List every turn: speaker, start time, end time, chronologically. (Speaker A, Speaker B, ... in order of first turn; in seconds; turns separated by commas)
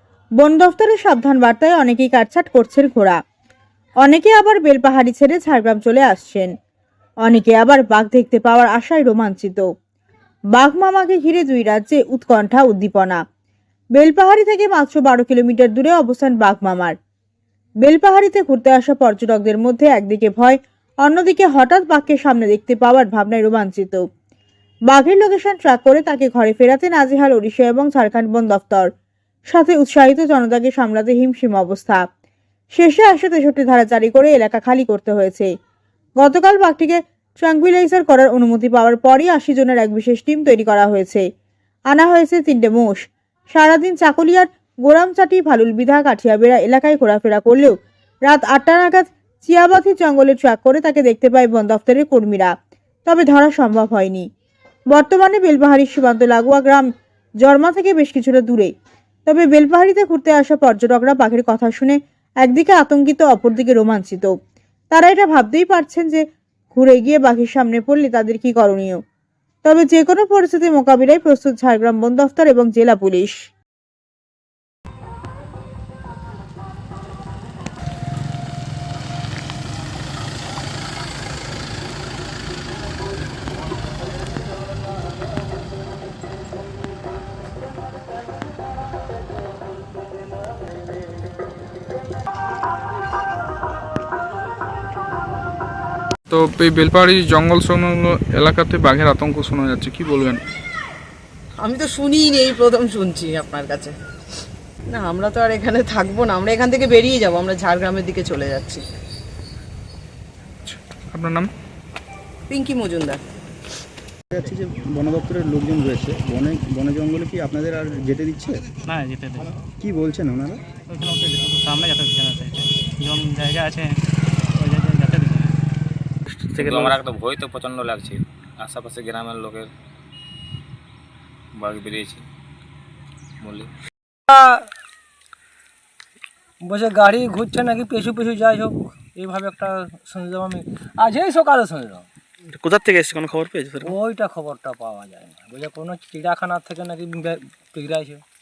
Speaker A: 0.4-3.2, Speaker A: 4.0-6.5, Speaker A: 7.2-9.7, Speaker A: 10.5-13.2, Speaker A: 13.9-16.9, Speaker A: 17.8-24.1, Speaker A: 24.9-28.9, Speaker A: 29.5-32.0, Speaker A: 32.7-35.5, Speaker A: 36.2-41.2, Speaker A: 41.9-52.5, Speaker A: 53.0-54.3, Speaker A: 54.9-56.9, Speaker A: 57.4-58.7, Speaker A: 59.3-64.4, Speaker A: 64.9-69.0, Speaker A: 69.6-73.5, Speaker B: 96.3-100.4, Speaker C: 101.6-104.0, Speaker C: 104.9-108.9, Speaker B: 110.6-111.5, Speaker C: 112.5-113.2, Speaker D: 114.3-118.6, Speaker E: 118.9-119.5, Speaker D: 119.8-120.6, Speaker E: 120.9-124.0, Speaker E: 124.6-125.5, Speaker F: 126.6-129.7, Speaker F: 131.6-132.2, Speaker F: 133.4-133.7, Speaker G: 136.7-148.2